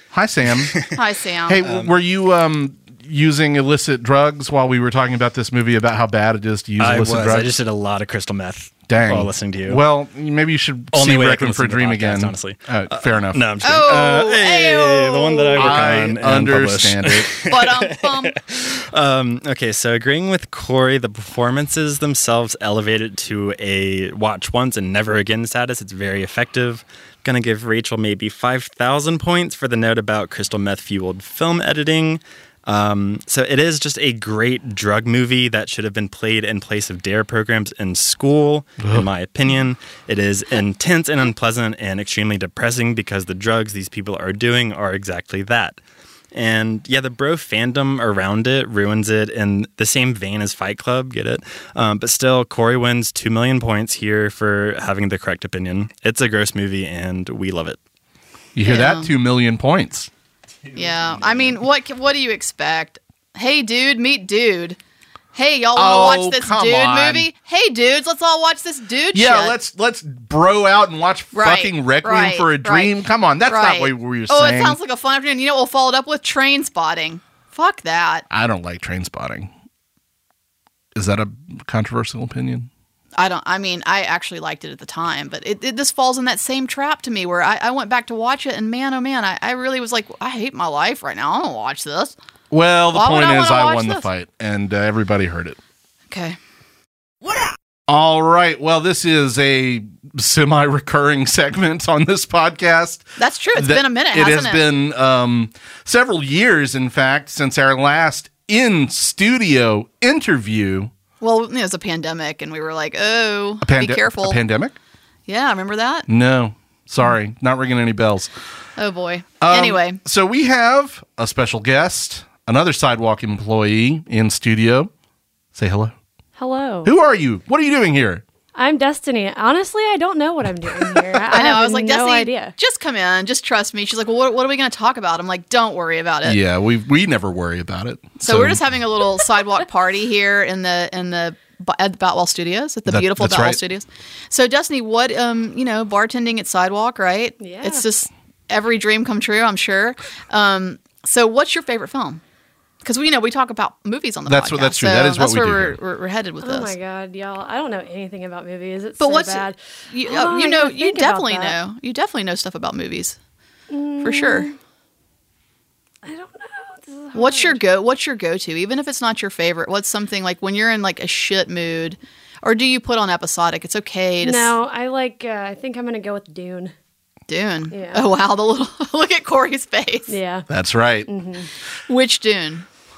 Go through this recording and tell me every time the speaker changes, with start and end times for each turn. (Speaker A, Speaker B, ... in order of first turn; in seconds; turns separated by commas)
Speaker A: 0.1-0.8, Speaker B: 0.4-1.0, Speaker C: 0.9-1.6, Speaker A: 1.5-7.5, Speaker B: 1.6-1.9, Speaker B: 6.8-9.8, Speaker A: 8.9-13.9, Speaker B: 10.9-45.8, Speaker C: 13.6-15.9, Speaker A: 15.6-17.3, Speaker C: 17.5-18.4, Speaker B: 46.3-57.8, Speaker A: 58.5-60.1, Speaker C: 58.6-59.1, Speaker C: 60.7-64.8, Speaker C: 65.3-69.5, Speaker A: 65.8-67.3, Speaker A: 69.1-74.8, Speaker C: 71.3-73.0, Speaker C: 73.5-78.2, Speaker A: 78.3-79.5, Speaker A: 81.0-82.7, Speaker C: 83.2-92.1, Speaker A: 92.5-95.6, Speaker C: 92.9-94.0, Speaker C: 96.1-96.4, Speaker A: 97.9-110.9, Speaker C: 103.2-104.6, Speaker C: 111.2-114.4, Speaker A: 113.6-114.8, Speaker C: 115.3-116.1, Speaker A: 116.1-118.3, Speaker C: 118.8-120.0, Speaker A: 119.4-124.9, Speaker A: 125.5-126.0, Speaker D: 126.4-126.9, Speaker A: 126.8-128.2, Speaker D: 128.5-132.5, Speaker C: 131.3-136.4, Speaker A: 136.2-138.6, Speaker C: 138.2-152.2, Speaker A: 142.9-143.6, Speaker D: 147.4-147.9, Speaker C: 152.8-156.7, Speaker A: 154.2-155.8, Speaker D: 156.4-161.6, Speaker C: 159.0-163.2, Speaker D: 163.7-164.6, Speaker C: 164.0-164.5, Speaker D: 166.0-167.6, Speaker C: 167.1-174.5, Speaker D: 174.2-176.7, Speaker C: 177.3-180.1, Speaker D: 177.7-178.0, Speaker D: 180.1-180.5, Speaker A: 180.5-181.1, Speaker D: 181.1-181.5, Speaker C: 181.9-182.7